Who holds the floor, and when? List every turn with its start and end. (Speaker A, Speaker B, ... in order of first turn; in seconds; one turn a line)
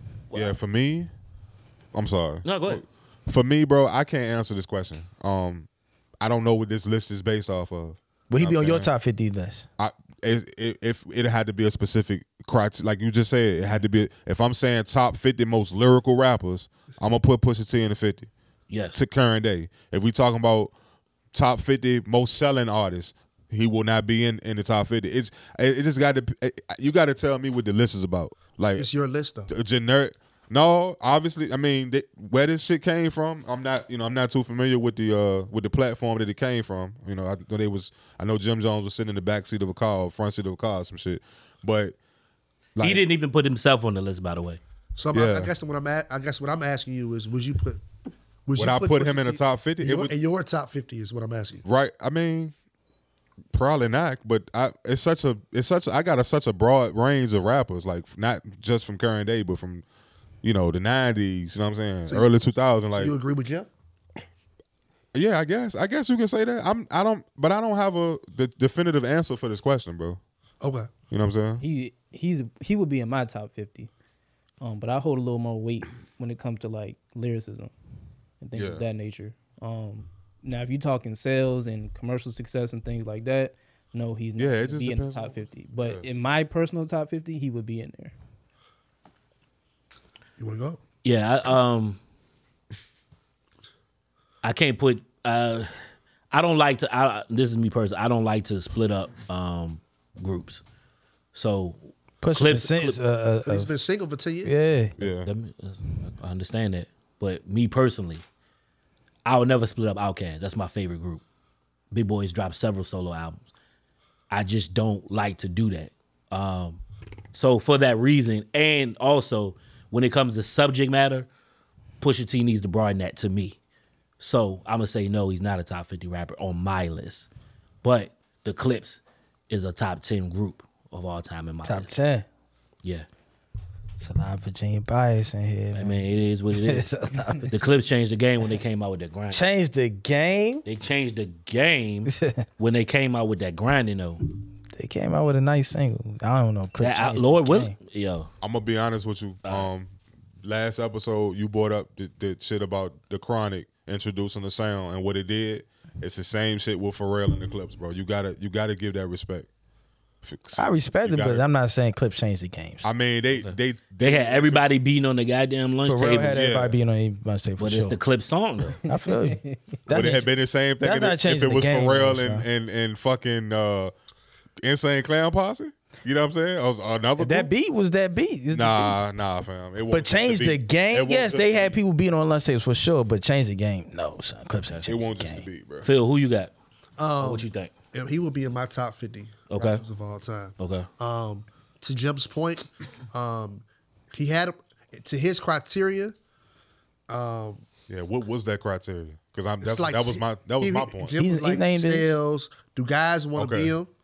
Speaker A: 0.3-0.6
Speaker B: 0.3-1.1
Speaker B: 1.9-5.7
Speaker A: 2.4-2.8
Speaker B: 6.2-8.9
Speaker C: 8.3-9.7
Speaker B: 9.8-18.3
Speaker A: 18.7-19.0
Speaker B: 18.9-20.7
Speaker B: 21.3-28.9
Speaker D: 28.8-29.5
Speaker B: 29.5-42.0
Speaker B: 42.8-43.0
Speaker A: 42.8-44.6
Speaker D: 45.0-47.8
Speaker B: 45.1-45.5
Speaker D: 48.5-51.6
Speaker B: 48.5-50.1
Speaker B: 51.6-52.5
Speaker B: 53.5-59.8
Speaker B: 60.4-63.1
Speaker D: 62.9-63.7
Speaker B: 65.1-70.2
Speaker D: 70.6-70.9
Speaker B: 71.1-71.6
Speaker E: 71.6-73.9
Speaker E: 74.6-77.7
Speaker E: 78.4-88.1
Speaker B: 78.5-78.8
Speaker B: 84.4-86.0
Speaker D: 90.4-90.8
Speaker A: 91.0-92.0
Speaker A: 94.4-95.7
Speaker A: 96.3-100.6
Speaker A: 101.3-101.8
Speaker C: 102.2-103.7
Speaker A: 102.3-103.0
Speaker D: 103.5-104.5
Speaker C: 104.4-105.0
Speaker B: 105.0-105.3
Speaker A: 105.2-108.2
Speaker A: 109.2-111.2
Speaker A: 111.9-113.5
Speaker A: 114.3-121.3
Speaker A: 122.0-123.6
Speaker A: 124.2-127.3
Speaker A: 127.8-131.9
Speaker C: 131.6-132.3
Speaker C: 134.0-137.6
Speaker A: 135.7-139.4
Speaker C: 139.3-140.6
Speaker A: 140.6-144.2
Speaker C: 142.1-142.4
Speaker C: 144.7-147.7
Speaker A: 146.8-148.3
Speaker B: 148.4-159.5
Speaker A: 149.4-149.7
Speaker B: 160.2-161.4
Speaker C: 160.6-162.8
Speaker B: 162.8-164.6
Speaker A: 163.3-166.4
Speaker C: 165.8-168.0
Speaker B: 166.3-166.8
Speaker A: 167.6-168.8
Speaker C: 168.9-172.5
Speaker E: 168.9-169.8
Speaker B: 169.9-173.9
Speaker B: 174.6-177.5
Speaker C: 177.2-179.0
Speaker B: 178.5-181.8
Speaker C: 179.9-185.5
Speaker B: 184.8-185.9
Speaker A: 185.8-186.5
Speaker D: 187.0-196.1
Speaker A: 187.2-187.7
Speaker A: 189.5-189.8
Speaker A: 190.6-190.9
Speaker D: 197.1-197.6
Speaker B: 197.9-201.1
Speaker D: 199.6-203.9
Speaker C: 201.2-202.1
Speaker B: 203.3-203.7